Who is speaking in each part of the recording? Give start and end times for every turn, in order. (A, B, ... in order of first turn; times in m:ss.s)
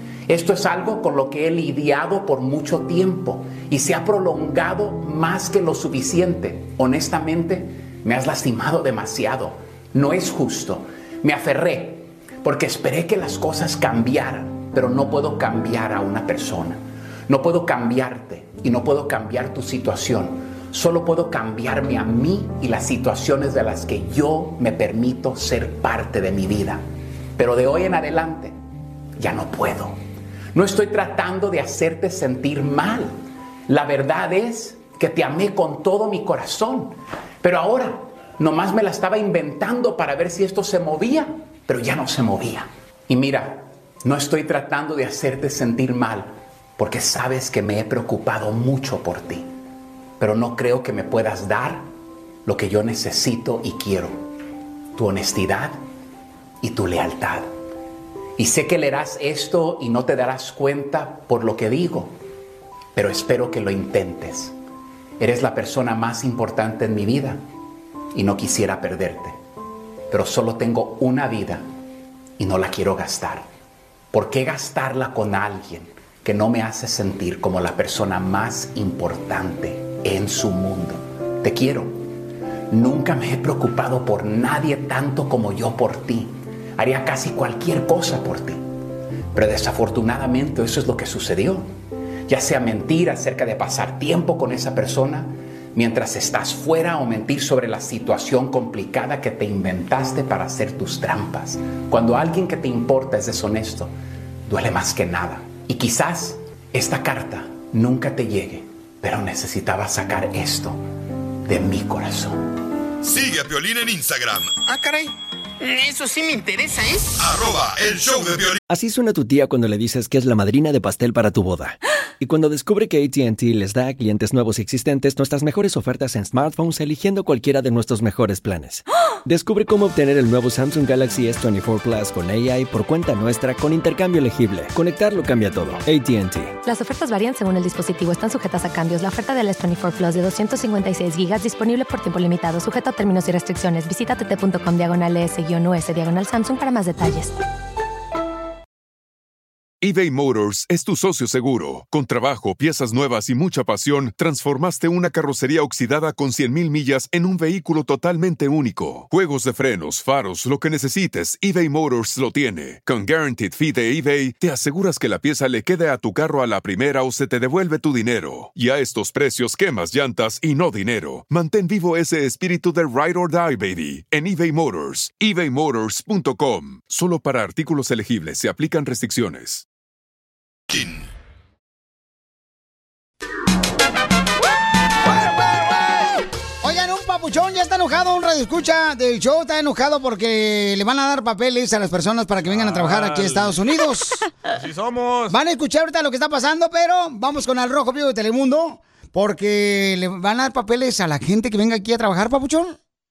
0:00.3-0:26.8 A
0:27.4-0:28.5 A
0:29.2-0:30.0 A
0:30.5-0:33.1 A
0:33.7-0:49.5 A
0:50.2-0:51.8 A
0:52.4-0:54.2 A
0:55.0-0:55.8 A
0:56.6-0:57.5 A
0:58.4-1:02.2 A
1:02.9-1:04.5 A
1:05.2-1:07.4 A
1:08.1-1:09.4 A
1:10.1-1:11.6 A
1:12.4-1:13.4 A
1:14.1-1:22.0 A
1:22.7-1:28.6 A
1:29.3-1:31.7 A
1:32.3-1:43.9 A
1:44.5-1:50.8 A
1:51.4-1:52.4 A
1:53.0-1:54.5 B
1:54.6-1:57.3 C
1:57.2-1:58.6 B
1:58.7-2:16.6 D
2:16.6-2:27.3 E
2:29.8-2:59.6 F
3:00.7-3:01.0 B
3:05.0-3:14.2 G
3:12.5-3:13.6 H
3:14.5-3:15.4 H
3:15.3-3:22.8 G